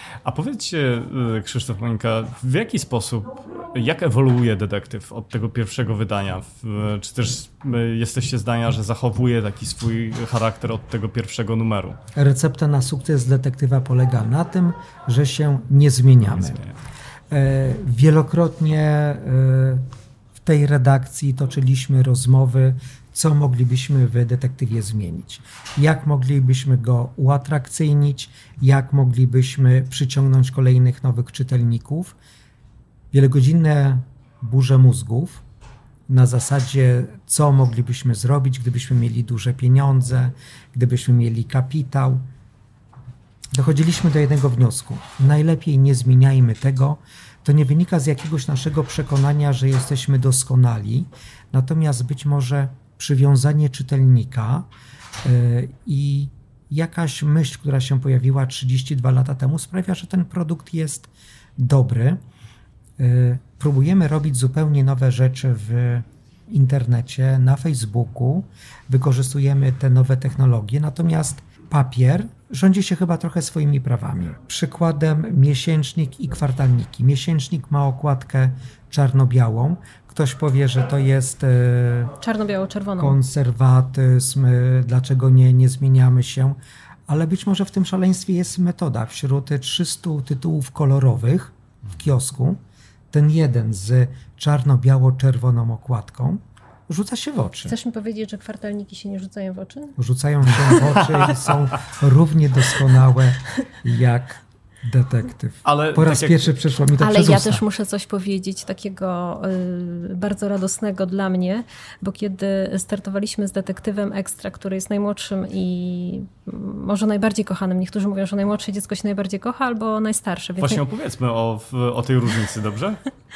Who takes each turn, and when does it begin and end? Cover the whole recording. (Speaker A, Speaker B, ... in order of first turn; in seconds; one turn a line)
Speaker A: 0.2-12.0
Speaker B: 12.1-16.6
Speaker A: 16.2-16.7
Speaker B: 17.3-19.9
Speaker B: 20.4-32.1
Speaker B: 33.1-35.4
Speaker B: 36.1-42.3
Speaker B: 43.5-54.7
Speaker B: 55.2-62.2
Speaker B: 63.0-82.2
Speaker C: 82.2-83.2
Speaker B: 83.0-92.6
Speaker B: 93.1-97.8
Speaker C: 97.6-100.0
Speaker B: 100.0-107.6
Speaker A: 100.8-101.5
Speaker A: 105.6-106.6
Speaker C: 107.0-120.8
Speaker A: 120.6-123.0